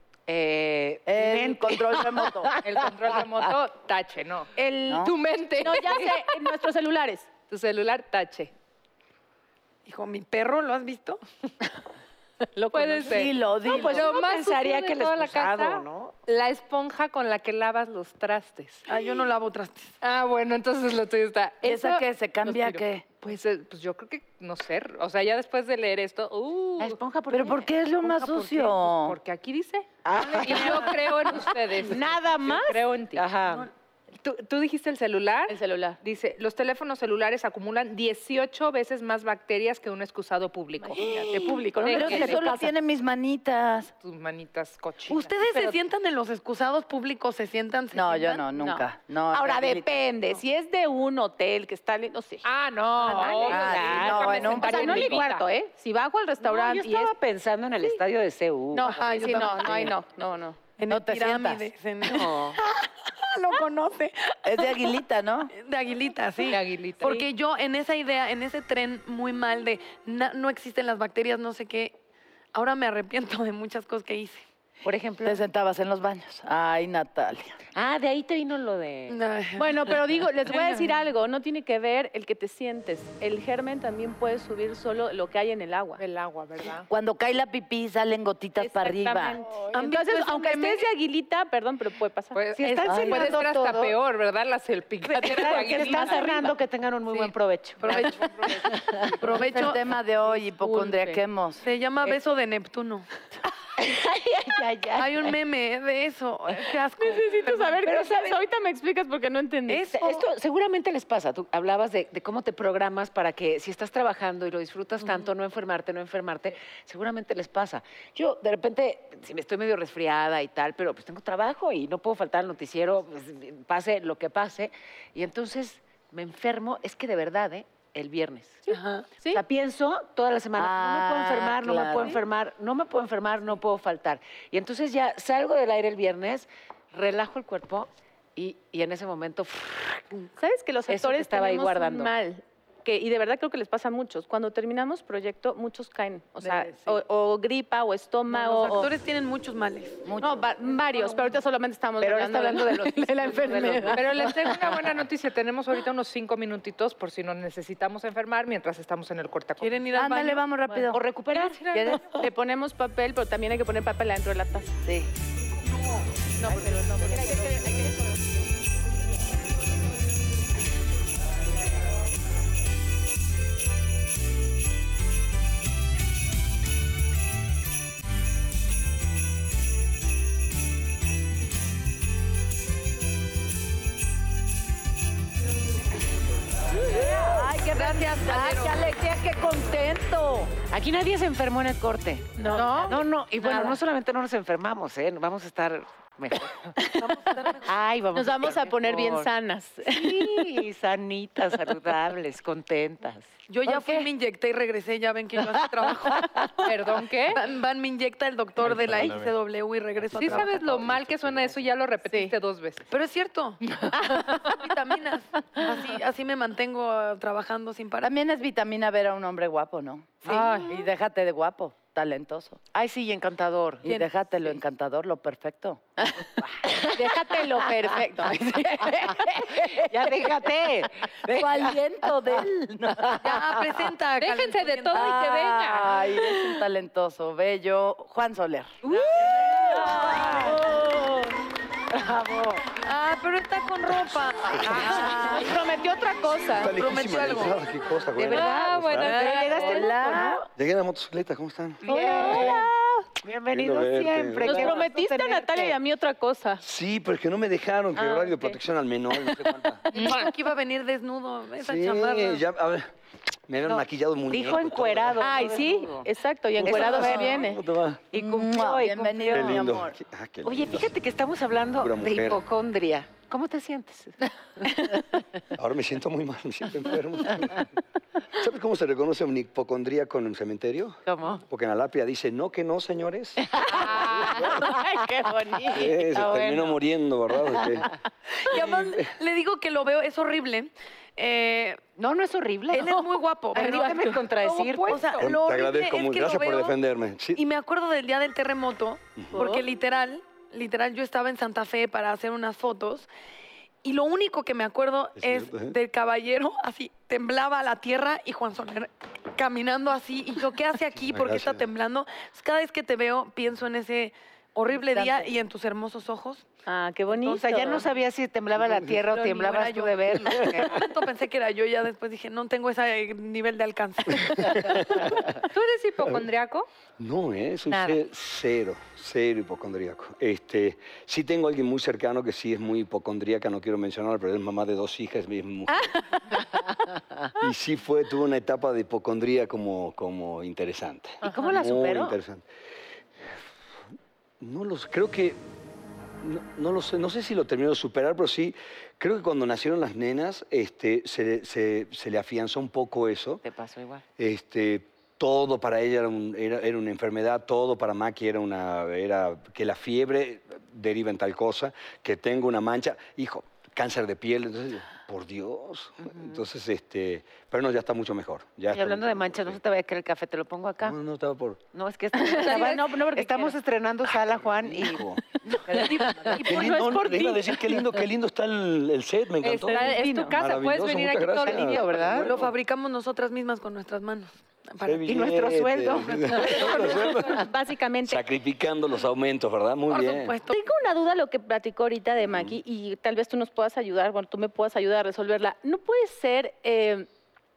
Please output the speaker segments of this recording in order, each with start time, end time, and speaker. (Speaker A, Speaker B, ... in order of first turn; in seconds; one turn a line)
Speaker A: 0.3-2.8
Speaker B: 1.1-2.5
Speaker C: 2.6-6.1
Speaker D: 4.6-7.3
Speaker B: 4.9-5.1
Speaker C: 7.5-8.5
Speaker E: 9.8-11.2
Speaker D: 12.6-13.3
Speaker C: 12.7-18.9
Speaker B: 13.1-14.1
Speaker A: 13.6-16.1
Speaker E: 18.9-19.9
Speaker C: 20.0-27.0
Speaker B: 21.6-23.0
Speaker A: 26.8-27.7
Speaker B: 27.3-29.2
Speaker C: 28.0-33.2
Speaker A: 30.0-33.7
Speaker C: 34.1-41.2
Speaker D: 35.5-36.0
Speaker D: 40.9-42.7
Speaker B: 41.0-43.9
Speaker C: 41.8-42.4
Speaker C: 44.0-45.8
Speaker E: 45.1-48.5
Speaker B: 47.9-50.0
Speaker D: 48.5-52.4
Speaker C: 52.4-55.5
Speaker D: 53.0-57.1
Speaker A: 53.2-55.2
Speaker B: 53.5-55.0
Speaker A: 56.4-59.0
Speaker D: 58.7-60.6
Speaker E: 58.8-59.9
Speaker E: 60.8-64.9
Speaker B: 60.9-61.7
Speaker A: 62.0-62.6
Speaker B: 64.4-65.5
Speaker E: 65.5-72.0
Speaker C: 66.5-67.2
Speaker E: 72.5-74.4
Speaker A: 74.8-75.4
Speaker B: 75.2-77.5
Speaker A: 77.8-79.2
Speaker E: 79.1-79.9
Speaker D: 79.6-86.0
Speaker C: 86.0-86.9
Speaker B: 86.9-89.4
Speaker D: 88.6-92.4
Speaker E: 89.7-90.8
Speaker C: 92.3-96.5
Speaker A: 92.6-94.0
Speaker B: 92.9-93.3
Speaker A: 95.1-98.1
Speaker D: 95.3-96.5
Speaker C: 97.1-99.2
Speaker E: 97.8-98.3
Speaker A: 98.7-99.0
Speaker E: 99.2-99.8
Speaker B: 99.3-101.6
Speaker D: 100.3-101.2
Speaker E: 101.6-103.1
Speaker A: 103.8-105.4
Speaker E: 105.0-108.2
Speaker D: 107.0-109.9
Speaker A: 107.9-108.3
Speaker E: 109.7-110.2
Speaker A: 109.9-128.7
Speaker E: 128.7-129.1
Speaker D: 128.7-129.4
Speaker A: 129.3-140.3
Speaker B: 130.6-132.2
Speaker D: 140.4-148.9
Speaker A: 140.9-142.1
Speaker C: 146.4-146.9
Speaker E: 148.3-150.0
Speaker B: 150.0-150.5
Speaker D: 150.2-154.5
Speaker A: 152.0-154.5
Speaker C: 153.9-159.8
Speaker E: 159.6-160.4
Speaker B: 159.9-161.0
Speaker A: 160.9-161.9
Speaker B: 161.7-162.1
Speaker D: 161.7-164.8
Speaker E: 165.6-167.8
Speaker A: 166.4-167.7
Speaker D: 167.0-167.9
Speaker D: 186.9-190.4
Speaker B: 187.1-190.5
Speaker E: 187.4-188.8
Speaker A: 190.7-196.8
Speaker D: 192.4-193.8
Speaker E: 196.9-197.8
Speaker A: 197.6-199.3
Speaker D: 198.1-200.6
Speaker A: 199.8-203.3
Speaker E: 203.5-206.3
Speaker D: 203.7-204.1
Speaker C: 206.6-207.4
Speaker E: 207.2-210.8
Speaker F: 208.8-209.3
Speaker C: 210.1-212.8
Speaker F: 210.2-211.4
Speaker D: 212.1-212.3
Speaker E: 212.9-218.1
Speaker C: 213.8-214.3
Speaker D: 213.9-214.5
Speaker B: 218.0-222.6
Speaker A: 222.7-224.0
Speaker B: 223.8-226.2
Speaker D: 226.0-229.4
Speaker A: 226.6-227.7
Speaker A: 228.8-233.4
Speaker B: 231.3-233.4
Speaker E: 233.2-235.2
Speaker C: 234.2-236.1
Speaker B: 234.9-238.8
Speaker A: 238.8-240.7
Speaker D: 238.9-241.2
Speaker B: 239.4-240.6
Speaker A: 241.9-242.7
Speaker E: 242.8-245.5
Speaker D: 244.6-246.8
Speaker A: 245.1-245.4
Speaker F: 246.5-249.3
Speaker E: 246.6-247.6
Speaker A: 248.1-250.5
Speaker C: 248.3-249.9
Speaker D: 249.3-249.9
Speaker B: 249.6-250.4
Speaker F: 250.5-251.8
Speaker A: 251.8-252.7
Speaker D: 251.8-253.1
Speaker A: 253.2-255.8
Speaker F: 253.5-254.8
Speaker D: 254.4-256.6
Speaker F: 256.6-259.9
Speaker D: 257.9-258.6
Speaker E: 259.9-262.4
Speaker D: 259.9-260.3
Speaker F: 261.6-262.9
Speaker F: 263.5-265.2
Speaker A: 263.7-266.1
Speaker D: 265.2-267.6
Speaker F: 266.6-268.1
Speaker A: 266.6-267.5
Speaker A: 268.1-269.7
Speaker B: 268.1-269.9
Speaker F: 269.3-270.9
Speaker A: 270.4-275.0
Speaker F: 271.8-272.4
Speaker F: 275.6-277.7
Speaker F: 278.3-284.6
Speaker A: 281.1-281.4
Speaker A: 283.4-284.9
Speaker D: 283.6-286.0
Speaker A: 285.5-286.8
Speaker F: 285.7-287.9
Speaker A: 287.5-287.9
Speaker E: 288.4-291.8
Speaker F: 288.5-289.1
Speaker A: 292.0-295.2
Speaker E: 292.7-296.8
Speaker D: 293.5-294.3
Speaker F: 295.2-297.4
Speaker E: 297.3-303.1
Speaker F: 299.2-299.4
Speaker D: 299.3-299.6
Speaker E: 303.8-316.5
Speaker F: 305.2-305.8
Speaker F: 311.1-311.6
Speaker B: 314.9-315.3
Speaker D: 316.6-317.9
Speaker A: 317.1-320.9
Speaker E: 319.0-325.0
Speaker F: 324.1-325.4
Speaker C: 325.3-326.7
Speaker F: 327.0-336.3
Speaker C: 327.7-327.9
Speaker D: 335.8-336.4
Speaker F: 337.4-342.5
Speaker A: 341.2-342.2
Speaker F: 344.4-345.4
Speaker F: 346.2-353.4
Speaker A: 353.4-354.0
Speaker F: 354.2-369.6
Speaker A: 366.0-366.4
Speaker A: 368.7-371.0
Speaker F: 370.8-371.6
Speaker A: 371.7-376.8
Speaker D: 372.1-373.5
Speaker C: 372.4-372.8
Speaker F: 374.3-375.6
Speaker D: 375.7-378.0
Speaker F: 376.4-382.5
Speaker C: 379.4-382.0
Speaker D: 379.7-380.4
Speaker A: 381.4-382.3
Speaker E: 382.2-385.1
Speaker F: 384.8-387.5
Speaker A: 385.1-387.3
Speaker D: 386.5-388.2
Speaker F: 388.1-390.4
Speaker E: 389.9-390.6
Speaker D: 390.4-397.1
Speaker F: 392.3-392.6